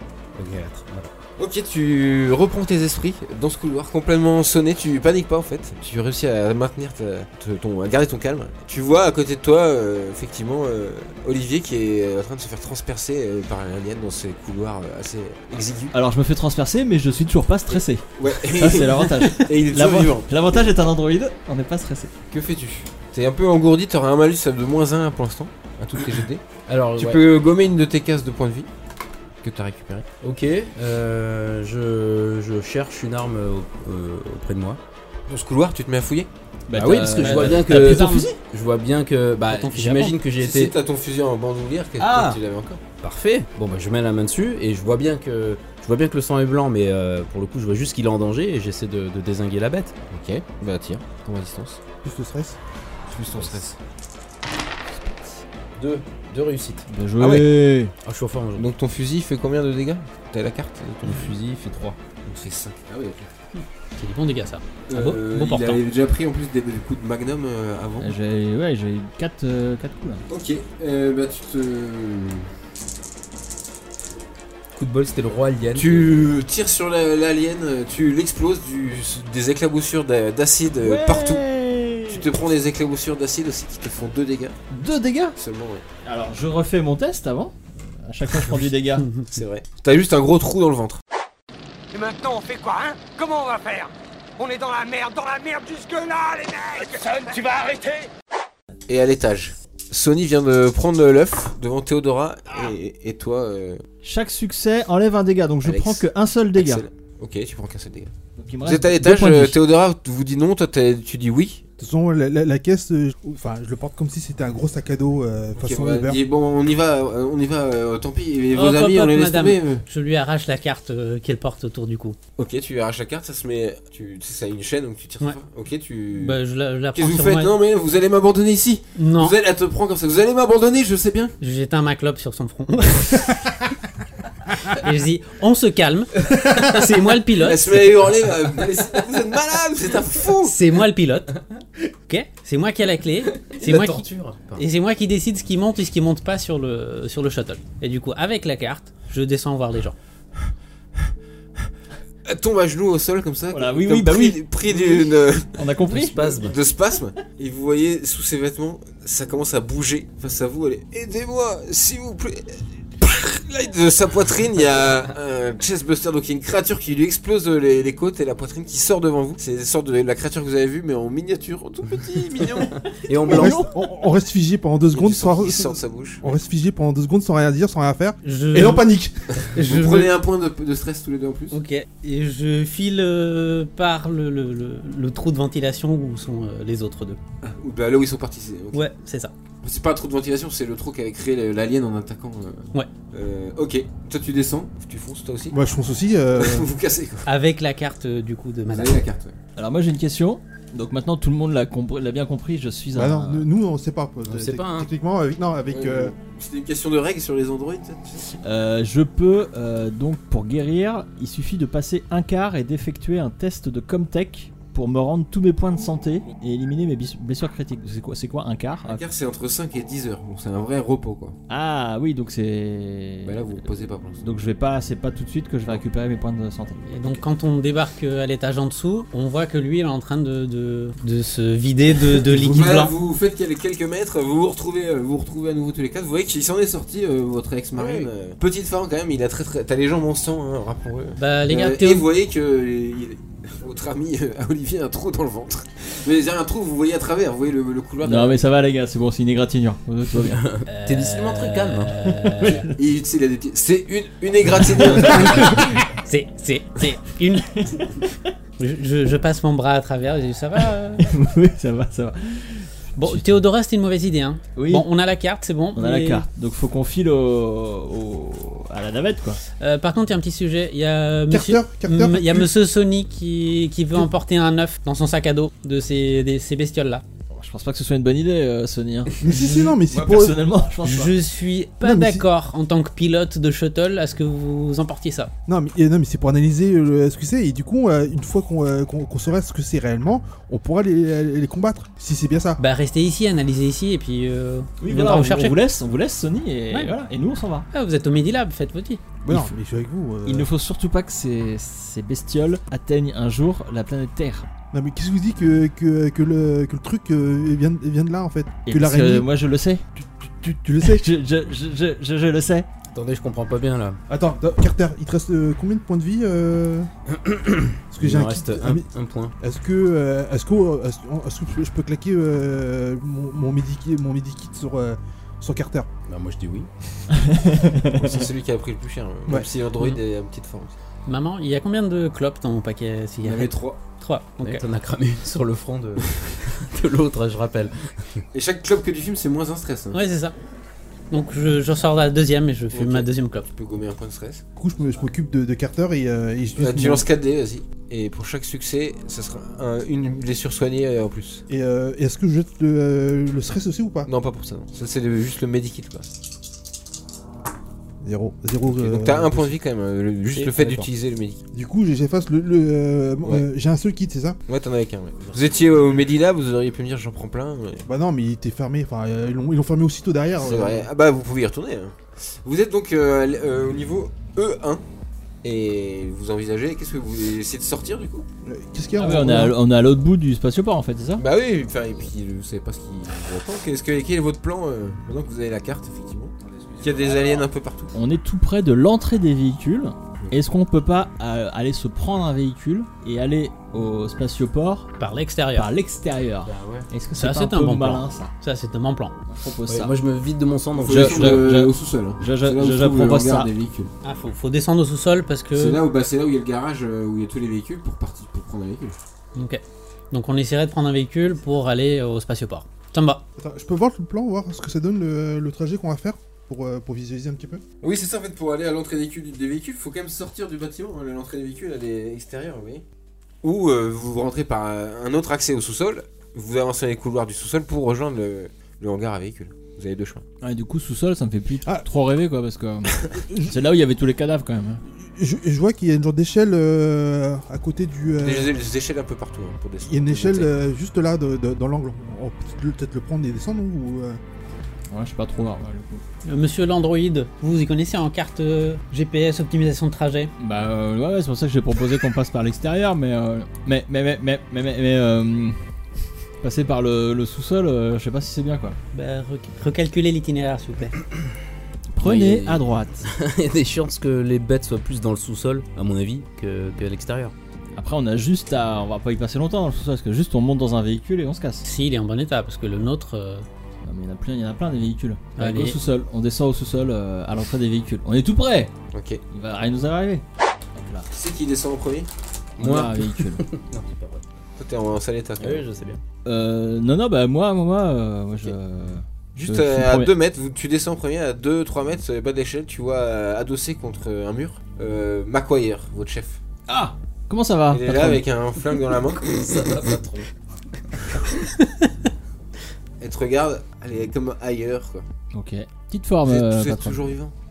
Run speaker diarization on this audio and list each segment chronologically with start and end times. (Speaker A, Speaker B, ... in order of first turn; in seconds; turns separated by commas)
Speaker A: 0.3-1.1, Speaker B: 1.4-15.9, Speaker C: 15.9-22.1, Speaker B: 17.7-20.3, Speaker B: 22.3-28.7, Speaker A: 26.7-27.2, Speaker B: 29.4-30.1, Speaker A: 30.2-34.8, Speaker B: 35.3-36.3, Speaker C: 36.7-38.3, Speaker A: 36.7-40.7, Speaker D: 37.2-38.3, Speaker D: 39.5-40.1, Speaker B: 40.4-42.8, Speaker A: 42.0-42.4, Speaker A: 43.0-49.9, Speaker B: 50.1-51.8, Speaker E: 52.0-52.6, Speaker B: 53.1-53.8, Speaker C: 54.9-55.4, Speaker A: 55.8-56.9, Speaker C: 56.9-57.9, Speaker B: 57.2-57.6, Speaker A: 58.0-58.7, Speaker B: 58.5-61.3, Speaker A: 61.0-62.0, Speaker B: 62.2-63.3, Speaker D: 63.6-65.8, Speaker B: 64.9-68.1, Speaker C: 68.0-70.2, Speaker B: 70.3-72.5, Speaker A: 74.7-76.3, Speaker B: 75.7-81.4, Speaker C: 80.8-82.2, Speaker B: 82.1-84.6, Speaker C: 84.7-85.3, Speaker B: 85.3-85.8, Speaker C: 86.0-89.1, Speaker B: 89.3-91.0, Speaker F: 91.9-98.1, Speaker B: 98.9-103.8, Speaker C: 104.0-106.8, Speaker B: 105.6-108.1, Speaker C: 108.3-109.6, Speaker B: 108.6-111.6, Speaker E: 111.8-116.2, Speaker B: 115.6-119.8, Speaker D: 118.5-122.2, Speaker B: 122.4-126.4, Speaker D: 126.1-127.5, Speaker B: 126.9-131.3, Speaker D: 128.9-129.3, Speaker D: 131.4-133.5, Speaker D: 134.6-137.7, Speaker B: 137.3-140.5, Speaker D: 140.4-141.4, Speaker D: 142.1-149.9, Speaker A: 143.4-144.6, Speaker B: 152.2-155.6, Speaker C: 153.5-156.5, Speaker A: 155.9-156.6, Speaker B: 156.2-172.8, Speaker A: 172.9-173.6, Speaker E: 173.3-179.2, Speaker C: 173.3-173.7, Speaker B: 174.9-176.2, Speaker D: 178.2-178.9, Speaker B: 179.4-181.6, Speaker D: 179.5-180.1, Speaker D: 181.5-187.2, Speaker B: 187.4-188.9, Speaker D: 188.7-189.3, Speaker B: 189.6-195.6, Speaker E: 195.5-196.7, Speaker B: 196.4-197.3, Speaker D: 197.2-199.0, Speaker B: 198.7-199.3, Speaker C: 199.6-203.5, Speaker E: 202.9-206.1, Speaker A: 204.2-204.9, Speaker B: 205.7-208.2, Speaker C: 208.4-219.0, Speaker B: 218.8-221.4, Speaker C: 221.5-223.4, Speaker B: 223.2-224.2, Speaker C: 224.2-227.2, Speaker D: 226.9-232.9, Speaker B: 232.2-248.4, Speaker A: 237.8-238.1, Speaker D: 241.2-242.1, Speaker C: 248.0-250.4, Speaker A: 250.2-251.9, Speaker D: 250.7-252.7, Speaker C: 252.2-252.7, Speaker B: 252.7-255.7, Speaker D: 255.0-257.8, Speaker C: 257.6-257.9, Speaker D: 258.6-261.1, Speaker C: 261.1-263.3, Speaker D: 262.9-266.2, Speaker C: 264.6-264.9, Speaker C: 265.8-269.4, Speaker D: 269.6-277.0, Speaker E: 271.3-272.5, Speaker C: 277.3-281.1, Speaker E: 279.2-280.4, Speaker D: 280.8-285.3, Speaker E: 281.8-282.2, Speaker E: 285.5-292.6, Speaker D: 292.6-295.6, Speaker C: 294.8-297.6, Speaker D: 297.7-299.0, Speaker E: 299.2-300.5, Speaker C: 299.3-299.5, Speaker C: 300.2-304.5, Speaker E: 304.7-309.3, Speaker C: 308.6-309.8, Speaker E: 310.0-311.0, Speaker C: 310.8-312.7, Speaker A: 312.9-314.0, Speaker E: 314.1-316.9, Speaker A: 317.1-319.3, Speaker E: 317.9-318.9, Speaker E: 319.4-325.9, Speaker A: 326.1-326.7, Speaker C: 327.1-328.2, Speaker B: 327.9-330.8, Speaker D: 331.1-334.6, Speaker B: 333.2-333.8, Speaker A: 334.4-338.2, Speaker B: 338.3-340.0, Speaker D: 339.9-340.3, Speaker D: 341.1-343.5, Speaker B: 342.7-344.4, Speaker E: 344.6-347.1, Speaker B: 346.6-351.4, Speaker E: 351.5-354.1, Speaker B: 354.0-356.1, Speaker E: 358.0-359.5, Speaker B: 358.6-361.4, Speaker A: 360.3-360.9, Speaker E: 361.5-364.4, Speaker B: 364.5-367.8, Speaker E: 367.9-370.9, Speaker B: 370.4-374.8, Speaker B: 375.4-378.2, Speaker E: 378.4-379.6, Speaker C: 379.0-381.2, Speaker B: 381.2-387.9, Speaker A: 386.8-387.3, Speaker C: 387.9-394.9, Speaker D: 395.0-395.7, Speaker C: 395.5-398.3, Speaker A: 396.4-396.9, Speaker D: 397.2-399.1, Speaker C: 399.3-399.9, Speaker A: 399.7-401.5, Speaker B: 400.7-403.9, Speaker C: 400.9-403.5, Speaker D: 404.0-405.8, Speaker B: 405.5-409.0, Speaker D: 409.3-413.2, Speaker E: 413.4-417.6, Speaker B: 417.8-422.8, Speaker B: 423.4-430.2, Speaker C: 430.4-434.8, Speaker E: 434.9-438.5, Speaker B: 438.2-440.5, Speaker E: 439.8-444.2, Speaker C: 444.9-446.0, Speaker D: 446.2-450.3, Speaker C: 450.4-455.6, Speaker C: 456.4-458.8, Speaker D: 458.9-461.0, Speaker C: 461.9-463.1, Speaker A: 462.0-467.3, Speaker C: 467.8-471.6, Speaker D: 471.6-473.4, Speaker C: 473.8-478.7, Speaker D: 475.4-475.8, Speaker B: 478.9-479.2, Speaker C: 479.3-480.2, Speaker C: 480.7-481.1, Speaker B: 481.1-482.1, Speaker C: 482.6-483.4, Speaker A: 482.6-484.2, Speaker B: 484.6-485.7, Speaker A: 485.4-486.0, Speaker C: 486.2-490.1, Speaker B: 489.3-496.4, Speaker C: 496.7-498.2, Speaker B: 497.7-499.4, Speaker A: 499.2-500.3, Speaker B: 503.0-505.1, Speaker C: 505.3-507.0, Speaker B: 506.2-507.3